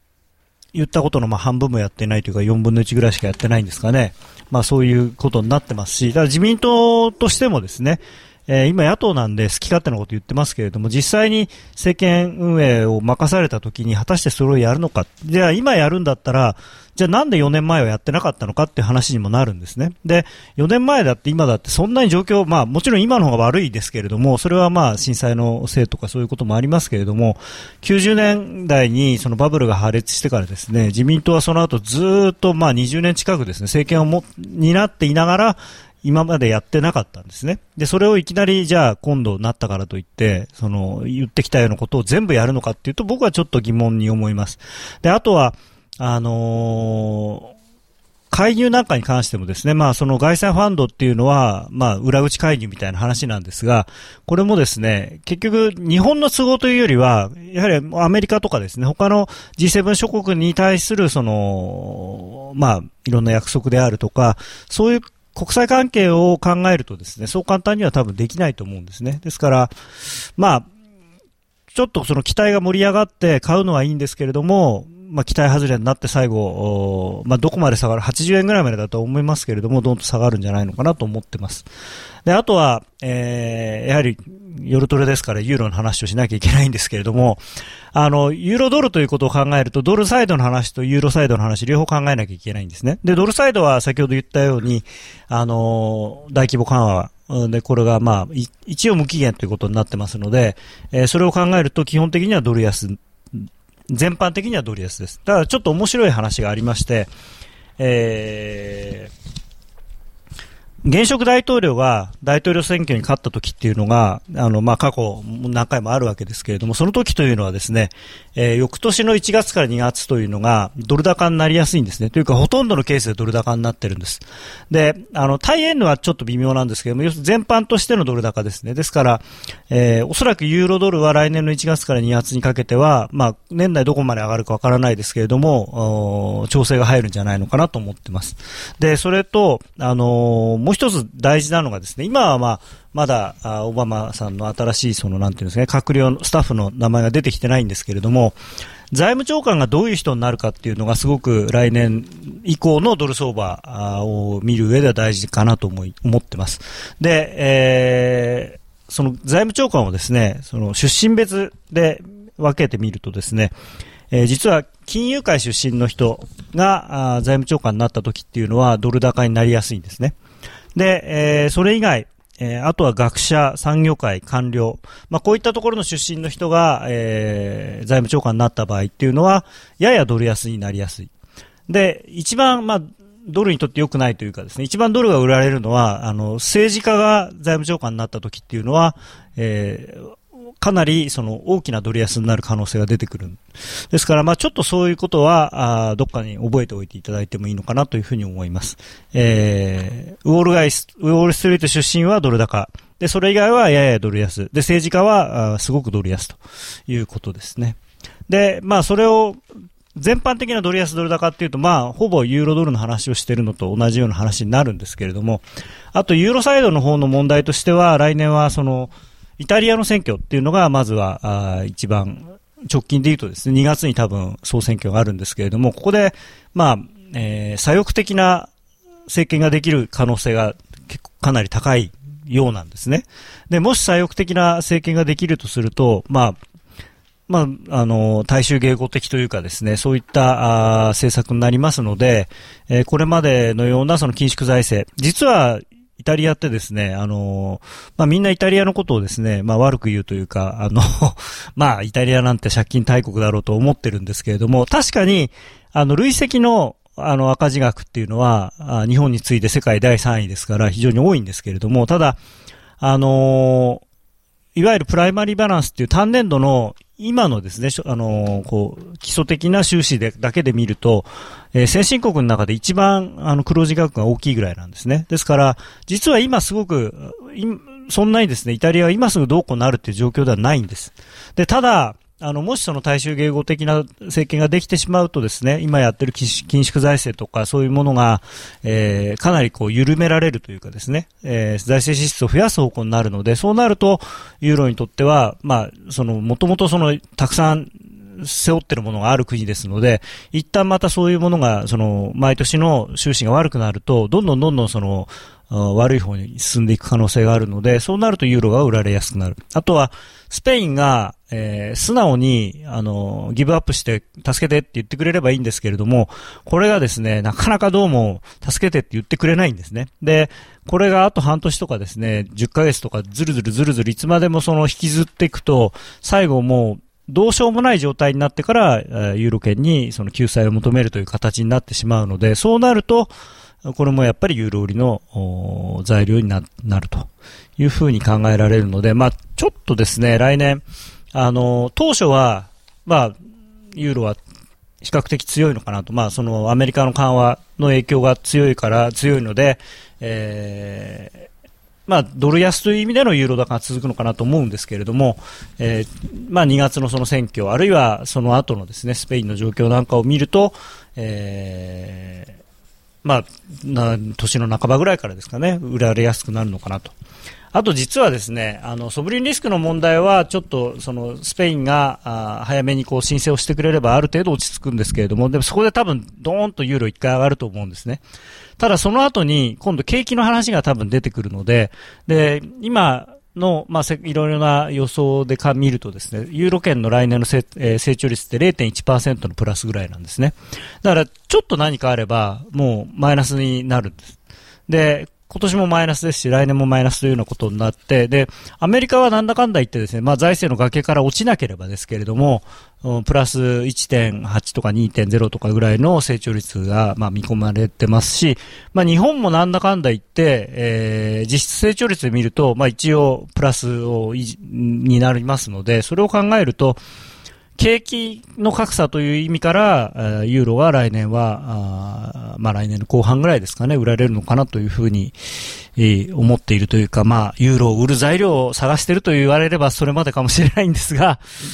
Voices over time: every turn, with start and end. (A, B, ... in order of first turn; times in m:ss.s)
0:00.7-0:47.5 A
0:48.3-1:09.7 A
1:10.4-1:10.7 A
1:11.7-1:21.7 A
1:22.2-1:27.4 A
1:27.9-1:47.1 A
1:47.8-1:49.1 A
1:50.8-2:28.4 A
2:28.9-2:43.5 A
2:44.1-2:50.1 A
2:50.7-3:01.1 A
3:01.7-3:13.4 A
3:13.9-3:29.4 A
3:29.9-3:48.5 A
3:49.1-3:56.4 A
3:57.3-4:22.2 A
4:22.8-4:23.8 A
4:24.5-5:33.1 A
5:33.6-5:43.2 A
5:43.7-5:44.2 A
5:44.8-5:51.3 A
5:51.9-6:02.4 A
6:03.0-6:06.9 A
6:07.5-6:18.0 A
6:18.6-6:34.2 A
6:34.7-6:56.8 A
6:57.6-7:05.1 A
7:05.8-7:11.2 A